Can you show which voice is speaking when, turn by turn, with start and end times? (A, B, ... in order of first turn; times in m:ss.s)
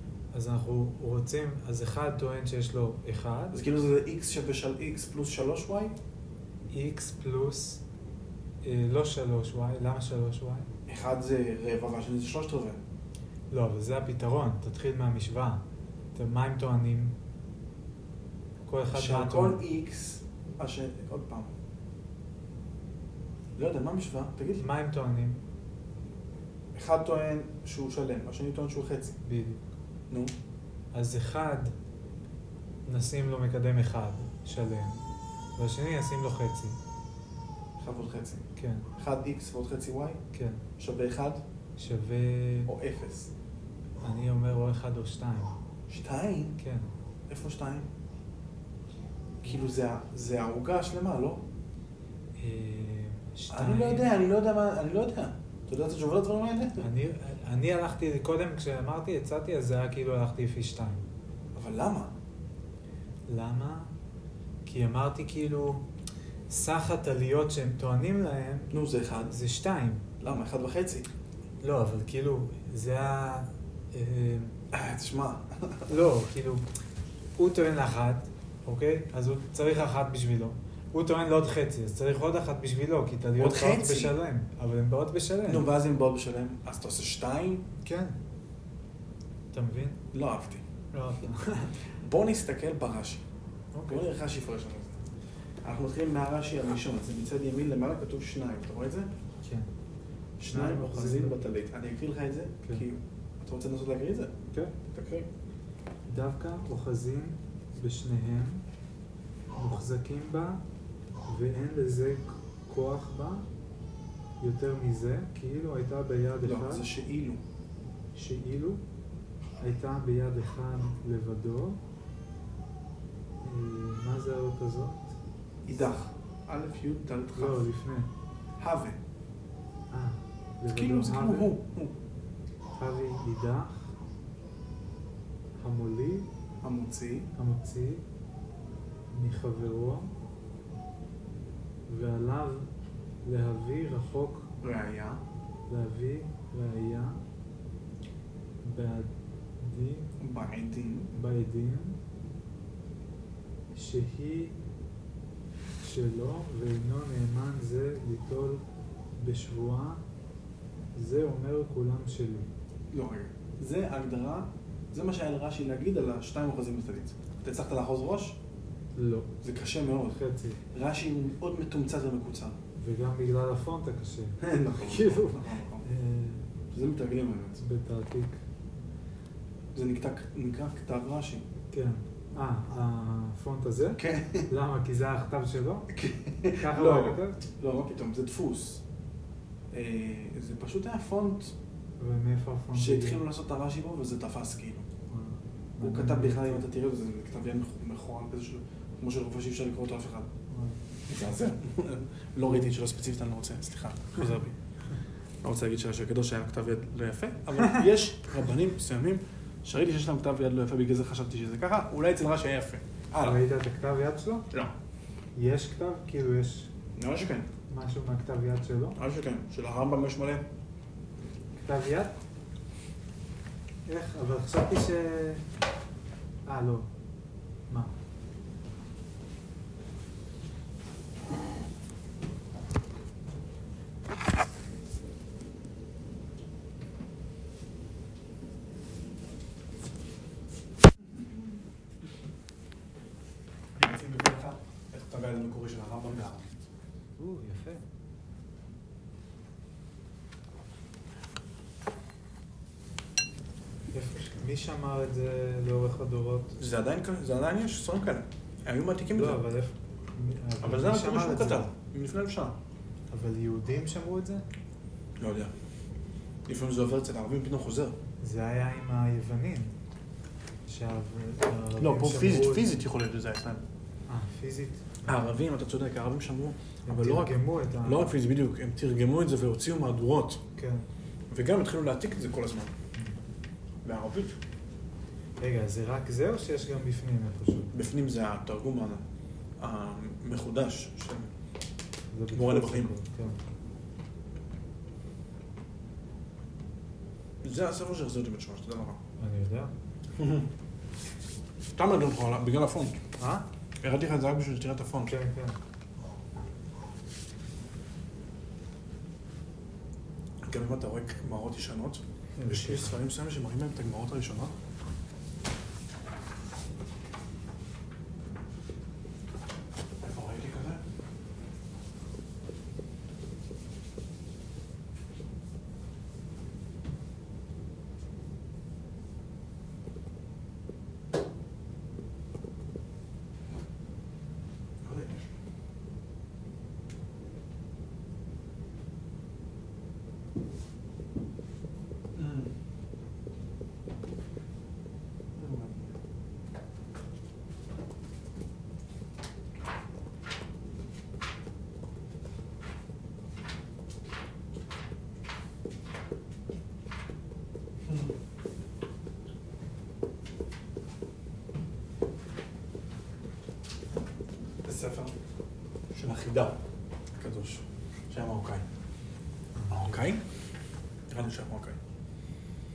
0:00.3-0:03.6 A
0:03.5-0:06.0 B
0:06.7-0:07.8 A
0:08.6-0:10.7 A
0:10.9-0:12.8 B
0:13.5-0:15.6 A
0:16.1-0:17.2 A
0:18.6-0:19.6 A
0:18.9-0:21.5 B
0:23.6-0:24.7 B
0:24.6-0:25.4 A
0:26.7-0:29.2 B
0:29.2-0:29.6 A
0:30.9-0:31.7 A
0:32.8-0:35.0 A
0:35.6-0:36.8 A
0:37.8-0:38.4 B
0:38.6-0:38.9 A
0:39.0-0:40.2 B
0:40.3-0:40.6 A
0:40.8-0:41.4 B
0:41.8-0:42.7 A
0:42.7-0:43.3 B
0:44.0-0:45.5 A
0:45.9-0:46.6 B
0:46.6-0:46.9 A
0:47.3-0:47.9 B
0:49.4-0:51.4 B
0:52.4-0:54.1 A
0:53.5-0:56.8 B
0:56.8-1:01.0 A
1:01.5-1:02.1 B
1:03.3-1:03.9 A
1:04.6-1:05.8 A
1:06.5-1:08.7 A
1:08.7-1:09.4 B
1:09.3-1:10.0 A
1:10.2-1:11.1 B
1:11.6-1:14.6 A
1:14.7-1:15.9 B
1:15.9-1:16.6 A
1:17.4-1:25.7 A
1:23.4-1:24.1 B
1:25.4-1:27.6 B
1:27.8-1:28.2 A
1:29.5-1:30.0 A
1:30.1-1:30.6 B
1:30.9-1:31.7 A
1:32.0-1:33.2 B
1:33.7-1:34.1 A
1:33.9-1:35.0 B
1:35.6-1:39.1 B
1:39.4-1:39.7 A
1:40.4-1:44.3 B
1:40.5-1:41.4 A
1:44.9-1:45.3 B
1:46.1-1:48.6 A
1:49.6-1:50.6 A
1:51.2-1:53.4 A
1:54.4-1:56.9 A
1:56.4-1:57.4 B
1:58.1-1:58.8 A
1:59.6-2:01.8 A
2:03.4-2:05.2 A
2:05.6-2:07.6 B
2:07.4-2:08.1 A
2:08.6-2:09.0 B
2:09.9-2:11.5 A
2:10.7-2:11.9 B
2:12.8-2:13.9 A
2:15.6-2:16.3 A
2:16.6-2:17.3 B
2:17.4-2:18.0 A
2:19.1-2:20.1 A
2:21.9-2:22.7 A
2:23.2-2:24.5 A
2:24.6-2:25.2 B
2:25.7-2:27.2 A
2:28.6-2:30.1 A
2:30.2-2:31.1 B
2:31.1-2:32.0 A
2:33.7-2:34.6 A
2:35.8-2:38.6 A
2:39.2-2:40.0 A
2:40.9-2:42.5 A
2:42.9-2:48.4 B
2:48.9-2:49.3 A
2:49.4-2:50.2 B
2:50.1-2:50.6 A
2:50.7-2:52.6 B
2:52.8-2:56.4 A
2:54.4-2:55.9 B
2:56.7-2:57.6 B
2:57.6-2:58.4 A
2:59.7-3:01.4 B
3:01.7-3:05.9 A
3:04.0-3:04.5 B
3:05.9-3:08.8 B
3:06.6-3:07.4 A
3:09.7-3:11.5 B
3:12.0-3:13.2 A
3:12.7-3:14.9 B
3:15.1-3:16.6 A
3:15.8-3:20.3 B
3:20.5-3:20.8 A
3:21.1-3:24.6 B
3:25.4-3:33.4 B
3:33.2-3:34.5 A
3:35.3-3:36.7 A
3:37.0-3:37.5 B
3:37.7-3:39.0 A
3:39.0-3:40.4 B
3:41.6-3:42.1 A
3:43.8-3:45.4 A
3:46.4-3:46.9 A
4:01.1-4:01.4 B
4:03.8-4:06.5 B
4:07.2-4:07.8 A
4:13.9-4:16.6 A
4:16.6-4:19.4 B
4:19.1-4:21.7 A
4:20.6-4:22.6 B
4:23.1-4:24.4 A
4:25.2-4:25.5 B
4:26.5-4:27.9 B
4:28.2-4:29.7 A
4:30.6-4:32.8 A
4:31.8-4:33.6 B
4:34.1-4:35.2 A
4:35.0-4:40.4 B
4:36.8-4:38.2 A
4:40.6-4:40.8 A
4:41.3-4:42.7 B
4:43.8-4:44.4 B
4:45.4-4:47.7 A
4:47.7-4:49.0 B
4:49.6-4:51.3 B
4:52.1-4:53.4 A
4:52.3-4:52.9 B
4:57.4-4:59.0 B
4:59.2-4:59.7 A
5:00.2-5:00.5 B
5:01.8-5:03.0 B
5:03.2-5:03.5 A
5:03.8-5:05.2 B
5:05.1-5:05.6 A
5:10.4-5:14.5 B
5:12.4-5:13.0 A
5:20.0-5:20.8 B
5:34.8-5:35.3 B
5:42.2-5:42.5 B
5:45.4-5:45.9 B
5:57.8-5:58.1 B
6:04.6-6:05.1 B
6:05.9-6:06.6 B
6:07.2-6:08.6 B
6:09.5-6:10.0 A
6:09.7-6:10.2 B
6:11.1-6:11.8 B